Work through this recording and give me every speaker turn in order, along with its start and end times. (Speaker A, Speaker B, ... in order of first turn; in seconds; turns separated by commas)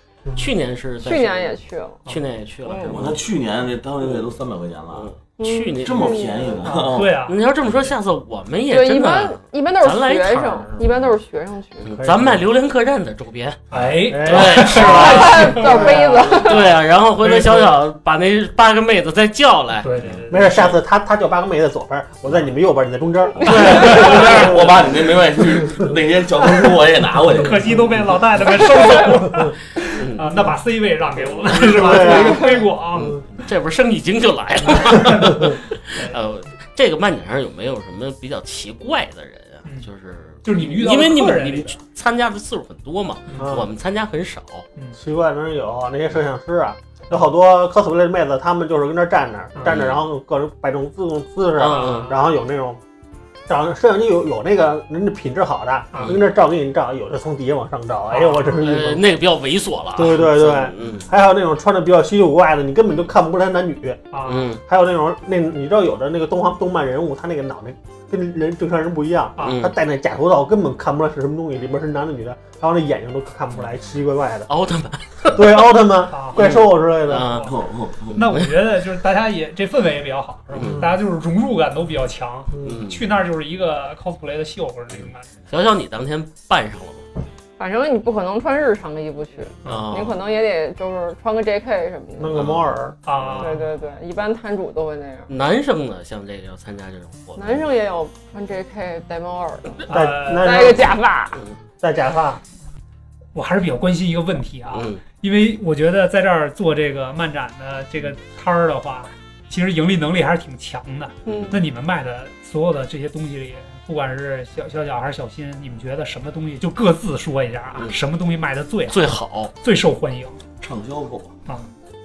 Speaker A: 0.3-1.6, Speaker B: 1.0-2.1, Speaker A: 2.1-3.2, Speaker B: 2.6-3.1, Speaker C: 2.9-5.1, Speaker A: 4.9-6.3, Speaker B: 5.4-6.7, Speaker C: 5.8-7.2, Speaker D: 6.8-7.4, Speaker A: 7.3-11.1, Speaker B: 8.7-11.9, Speaker A: 11.8-13.6, Speaker E: 11.9-12.4, Speaker D: 13.7-16.0, Speaker E: 14.1-16.5, Speaker A: 14.1-20.1, Speaker B: 14.7-16.7, Speaker D: 17.2-17.7, Speaker D: 19.8-20.8, Speaker E: 20.3-24.9, Speaker A: 23.4-24.5, Speaker D: 23.5-24.4, Speaker C: 23.7-27.8, Speaker D: 27.3-33.1, Speaker A: 30.0-30.4, Speaker E: 31.5-32.6, Speaker A: 33.0-44.6, Speaker D: 34.9-36.1, Speaker D: 40.4-41.8, Speaker D: 43.3-43.5, Speaker E: 43.4-43.7, Speaker E: 45.0-52.8, Speaker A: 49.6-50.0, Speaker A: 51.6-52.1, Speaker D: 51.6-52.2, Speaker E: 53.5-59.0, Speaker D: 58.1-58.6, Speaker A: 58.5-61.1, Speaker E: 60.0-64.1, Speaker D: 64.1-64.5, Speaker A: 64.2-64.6, Speaker E: 64.7-74.5, Speaker A: 69.4-69.7, Speaker A: 74.5-75.7, Speaker E: 75.3-77.3, Speaker D: 76.1-76.4, Speaker A: 76.3-77.5, Speaker C: 77.4-78.3, Speaker D: 78.1-85.3, Speaker A: 78.2-78.6, Speaker A: 80.5-80.9, Speaker E: 80.6-81.0, Speaker E: 82.5-82.8, Speaker A: 82.6-83.1, Speaker A: 85.5-87.0, Speaker B: 87.6-92.5, Speaker A: 89.7-90.2, Speaker E: 92.2-93.0, Speaker A: 92.3-92.6, Speaker D: 93.0-93.7, Speaker B: 93.4-95.3, Speaker A: 95.3-97.7, Speaker B: 97.4-101.4, Speaker D: 99.9-100.7, Speaker E: 99.9-101.0, Speaker E: 101.8-102.4, Speaker D: 103.3-120.4, Speaker A: 104.7-105.0, Speaker A: 111.2-111.6, Speaker A: 118.9-119.5, Speaker C: 120.6-121.3